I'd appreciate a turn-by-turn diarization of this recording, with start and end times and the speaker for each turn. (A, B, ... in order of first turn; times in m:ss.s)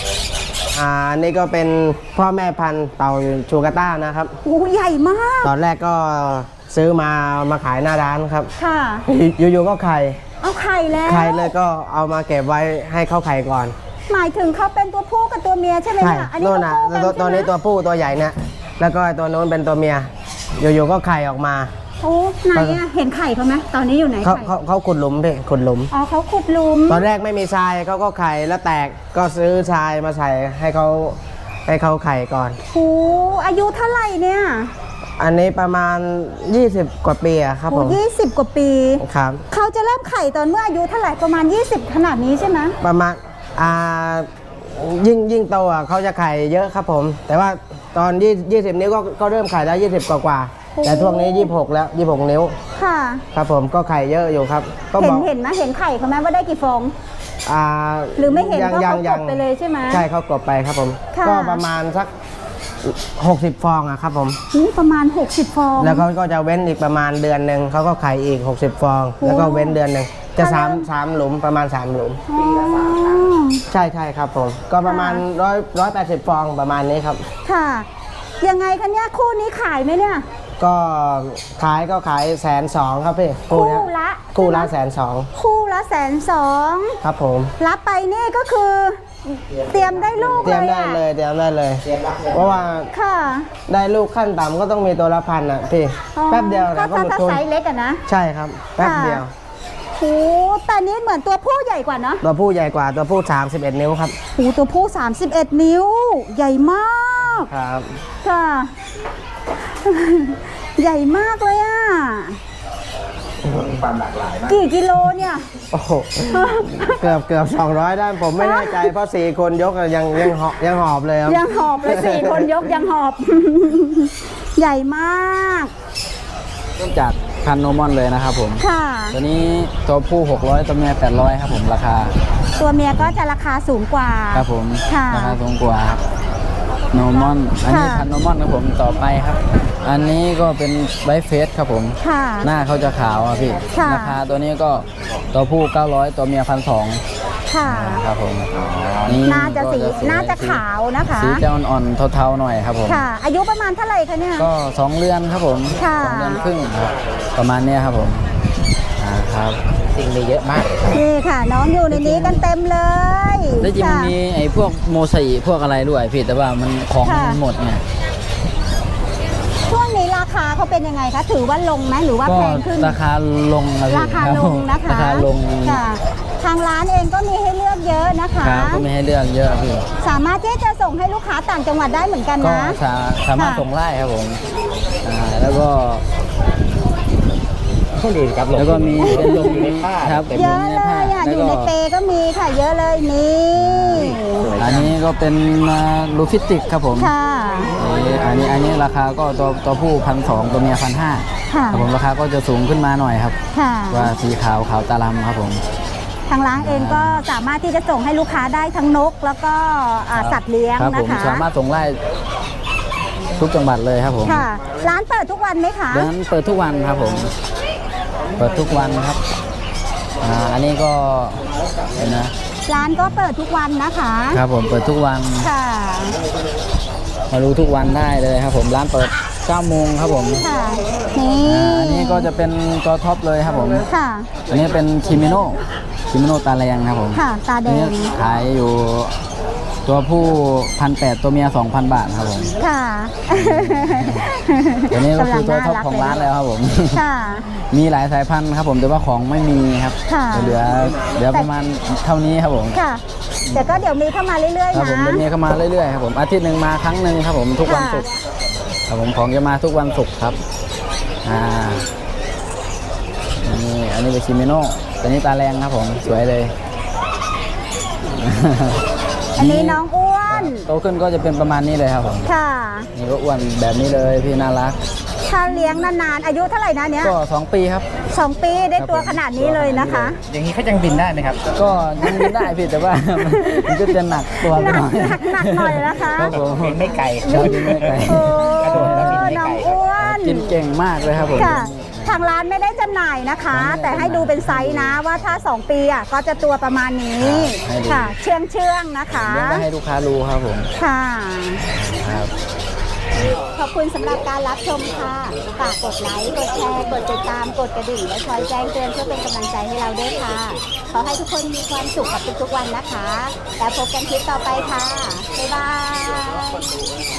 0:00.7-0:04.4 A
0:04.4-0:05.5 B
0:05.4-0:08.5 A
0:08.6-0:09.0 B
0:09.1-0:10.2 A
0:10.4-0:11.5 B
0:11.1-0:13.8 A
0:14.1-0:17.5 B
0:16.0-0:21.7 A
0:22.0-0:24.5 B
0:22.5-0:22.8 A
0:24.2-0:25.9 A
0:25.9-0:27.0 B
0:26.9-0:32.6 A
0:32.7-0:34.7 B
0:35.2-0:38.0 A
0:37.7-0:42.8 B
0:39.0-0:39.4 A
0:42.8-0:52.6 A
0:50.8-0:51.5 B
0:52.8-0:53.2 B
0:53.3-0:55.3 A
0:55.0-0:56.9 B
0:57.5-1:02.1 A
0:58.2-1:00.0 B
1:01.1-1:01.6 B
1:02.8-1:04.4 A
1:04.5-1:06.1 B
1:05.8-1:12.2 A
1:09.2-1:09.8 B
1:10.4-1:10.9 B
1:12.3-1:13.6 B
1:13.7-1:17.3 A
1:14.8-1:15.2 B
1:17.5-1:17.9 B
1:18.4-1:20.2 B
1:20.6-1:25.3 A
1:23.5-1:24.7 B
1:25.4-1:27.0 B
1:27.0-1:27.5 A
1:27.6-1:31.0 B
1:29.5-1:30.6 C
1:30.4-1:32.9 A
1:31.8-1:32.6 C
1:32.9-1:33.5 B
1:33.7-1:37.4 A
1:36.2-1:38.0 B
1:38.1-1:39.3 A
1:38.8-1:39.2 B
1:40.0-1:42.2 B
1:42.2-1:44.2 A
1:44.4-1:47.5 B
1:47.4-1:47.9 A
1:48.2-1:48.7 B
1:49.6-1:52.4 B
1:53.4-1:54.6 C
1:54.5-1:55.5 B
1:55.7-2:02.6 A
1:56.3-1:57.0 B
1:58.4-1:58.9 B
2:01.3-2:05.7 B
2:06.8-2:12.2 D
2:08.6-2:09.2 B
2:12.6-2:15.4 B
2:14.3-2:16.0 D
2:16.9-2:27.0 D
2:17.7-2:18.1 B
2:22.0-2:22.5 B
2:23.7-2:24.2 B
2:27.5-2:28.0 B
2:27.6-2:28.5 D
2:28.5-2:29.2 C
2:29.0-2:30.6 D
2:29.2-2:31.4 B
2:31.2-2:33.1 D
2:32.9-2:34.5 B
2:34.4-2:38.3 D
2:35.8-2:36.4 B
2:39.0-2:39.6 D
2:39.8-2:41.0 C
2:40.9-2:44.1 B
2:41.9-2:42.4 D
2:43.6-2:47.8 D
2:47.0-2:47.4 B
2:49.7-2:53.0 B
2:52.2-2:55.8 D
2:53.9-2:58.8 B
2:58.4-2:59.9 D
3:00.0-3:02.8 B
3:02.4-3:04.4 D
3:03.4-3:03.6 B
3:05.0-3:06.0 D
3:07.9-3:10.6 C
3:08.6-3:11.7 D
3:09.0-3:09.6 B
3:10.3-3:14.5 B
3:13.7-3:15.0 C
3:14.6-3:17.1 D
3:17.0-3:17.7 B
3:17.8-3:23.4 D
3:21.5-3:21.9 B
3:23.5-3:24.1 B
3:23.9-3:25.6 D
3:26.3-3:31.4 B
3:26.6-3:27.2 D
3:30.1-3:32.0 D
3:33.4-3:34.5 D
3:34.3-3:36.1 B
3:35.9-3:37.3 D
3:38.4-3:39.2 D
3:40.2-3:41.4 D
3:42.0-3:42.3 D
3:42.7-3:44.4 B
3:44.3-3:45.5 D
3:45.4-3:46.2 B
3:47.3-3:50.4 D
3:50.4-3:52.3 B
3:51.4-3:53.9 D
3:53.9-3:54.3 B
3:54.5-3:55.6 D
3:56.1-3:59.2 D
3:57.1-3:58.2 B
3:59.9-4:02.5 D
4:02.6-4:06.3 B
4:03.3-4:04.3 D
4:04.9-4:07.0 D
4:06.9-4:07.5 B
4:07.7-4:12.8 D
4:10.1-4:10.6 B
4:12.7-4:15.2 B
4:13.5-4:13.8 D
4:14.7-4:18.1 D
4:17.7-4:18.1 B
4:18.9-4:20.4 D
4:21.2-4:21.9 D
4:23.4-4:26.5 D
4:28.1-4:28.8 D
4:29.4-4:30.7 B
4:29.4-4:32.3 D
4:32.3-4:32.9 B
4:32.9-4:34.8 D
4:35.3-4:37.2 B
4:37.0-4:37.9 D
4:38.1-4:40.2 B
4:38.8-4:40.1 D
4:40.2-4:42.2 C
4:41.5-4:52.2 D
4:43.3-4:46.4 B
4:46.2-4:49.8 C
4:47.3-4:50.5 B
4:51.4-4:59.6 B
4:53.5-4:55.0 D
4:57.2-4:58.1 D
4:59.1-5:00.7 D
5:00.8-5:01.6 B
5:01.7-5:02.3 D
5:03.5-5:16.8 B